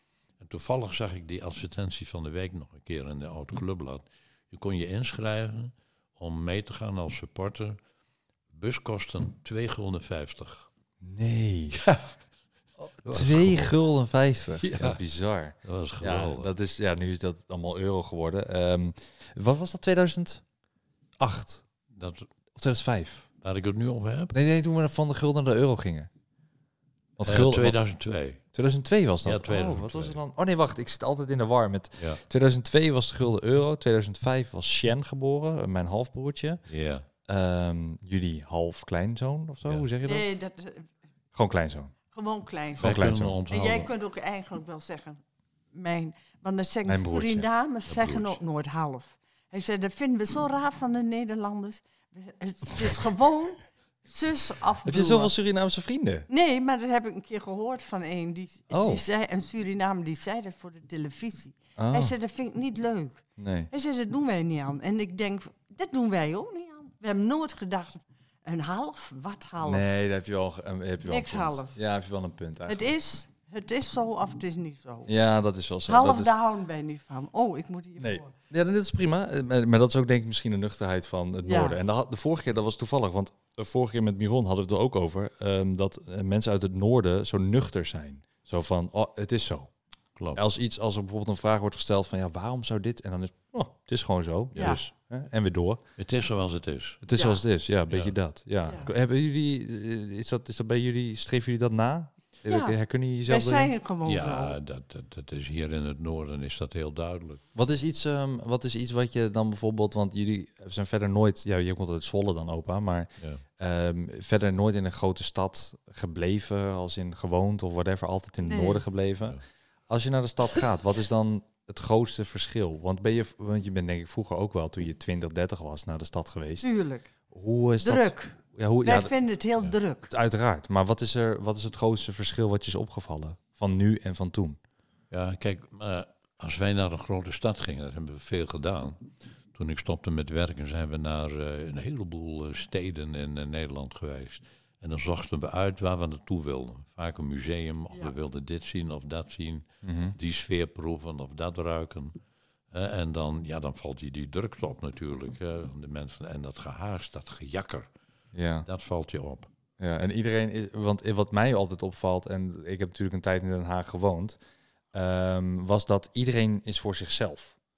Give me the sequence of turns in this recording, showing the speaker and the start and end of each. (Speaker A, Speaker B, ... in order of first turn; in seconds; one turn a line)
Speaker A: 0.4-7.8
Speaker A: 8.5-10.7
Speaker B: 11.0-11.8
Speaker A: 11.8-12.1
Speaker B: 12.9-20.4
Speaker A: 13.0-13.7
Speaker A: 14.6-15.0
Speaker A: 15.6-16.5
Speaker B: 21.2-21.6
Speaker A: 21.9-22.3
Speaker B: 22.6-23.3
Speaker A: 23.4-24.3
Speaker B: 24.3-26.1
Speaker B: 27.2-27.8
Speaker A: 27.2-28.4
Speaker B: 28.5-36.6
Speaker A: 29.2-30.2
Speaker A: 36.7-37.0
Speaker B: 37.3-40.3
Speaker C: 40.0-40.9
Speaker B: 41.3-41.9
Speaker C: 42.1-45.2
Speaker B: 42.8-43.4
Speaker A: 42.8-43.9
Speaker C: 45.7-55.3
Speaker B: 46.9-47.5
Speaker A: 47.9-48.4
Speaker B: 54.8-56.3
Speaker C: 56.3-69.9
Speaker B: 58.7-59.0
Speaker B: 61.8-62.1
Speaker B: 63.4-63.7
Speaker B: 69.6-72.9
Speaker C: 71.1-71.8
Speaker C: 72.7-75.1
Speaker B: 75.1-76.3
Speaker C: 75.9-78.3
Speaker B: 78.0-89.7
Speaker C: 81.4-81.8
Speaker A: 90.2-90.4
Speaker B: 90.3-95.8
Speaker A: 94.5-94.8
Speaker C: 94.5-94.8
Speaker A: 96.0-97.0
Speaker B: 97.0-103.7
Speaker A: 97.9-98.1
Speaker C: 102.5-104.6
Speaker A: 104.0-107.4
Speaker B: 107.5-126.7
Speaker A: 113.2-113.4
Speaker C: 118.4-118.8
Speaker C: 126.6-127.1
Speaker B: 127.3-129.1
Speaker C: 127.8-130.1
Speaker B: 130.1-134.6
Speaker A: 135.1-152.1
Speaker B: 149.8-150.2
Speaker A: 152.7-157.9
Speaker B: 158.3-158.7
Speaker A: 158.6-159.5
Speaker B: 159.8-164.4
Speaker B: 164.9-167.6